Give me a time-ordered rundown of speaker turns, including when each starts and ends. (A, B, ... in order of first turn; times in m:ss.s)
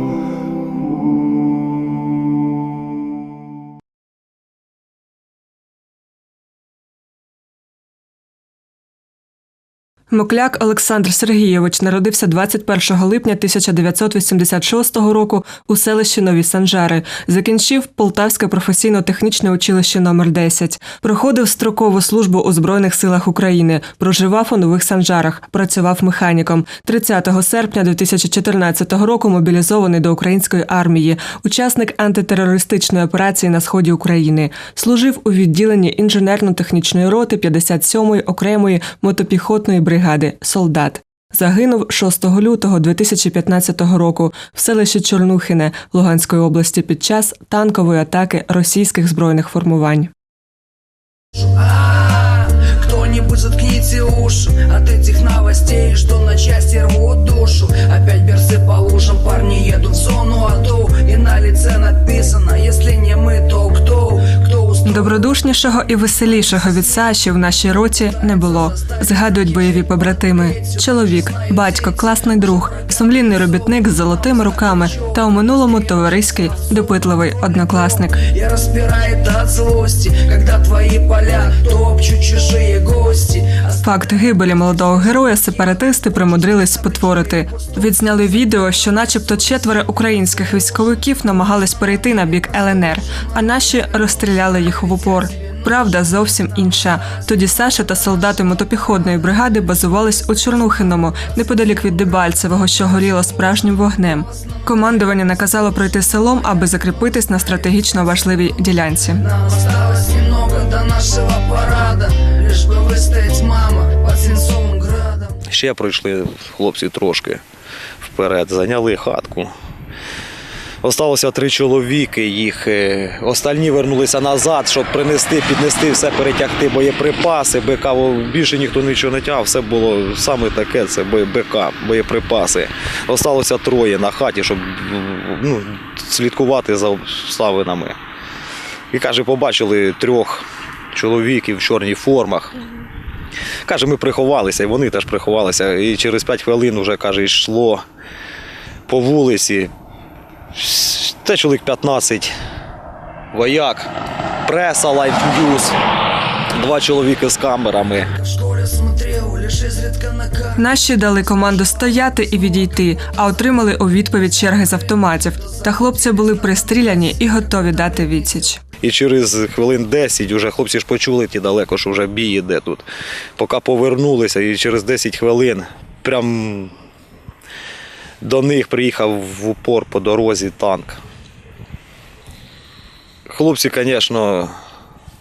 0:10.1-0:50.1 A
0:52.3-1:04.4 B
1:04.8-1:18.2 A
1:18.3-1:23.7 B
1:23.8-1:49.2 A
1:49.4-1:55.2 B
1:55.5-1:57.4 C
1:58.0-1:59.5 C
2:00.8-2:18.0 C
2:18.9-2:22.6 C
2:23.6-2:27.8 C
2:28.9-2:29.7 C
2:30.6-2:32.3 C
2:33.3-2:33.9 C
2:34.5-2:35.8 C
2:36.6-2:38.1 C
2:38.7-2:40.3 B
2:40.6-2:48.6 A
2:48.8-2:52.9 C
2:53.4-2:56.7 C
2:58.2-3:01.0 C
3:03.3-3:04.5 C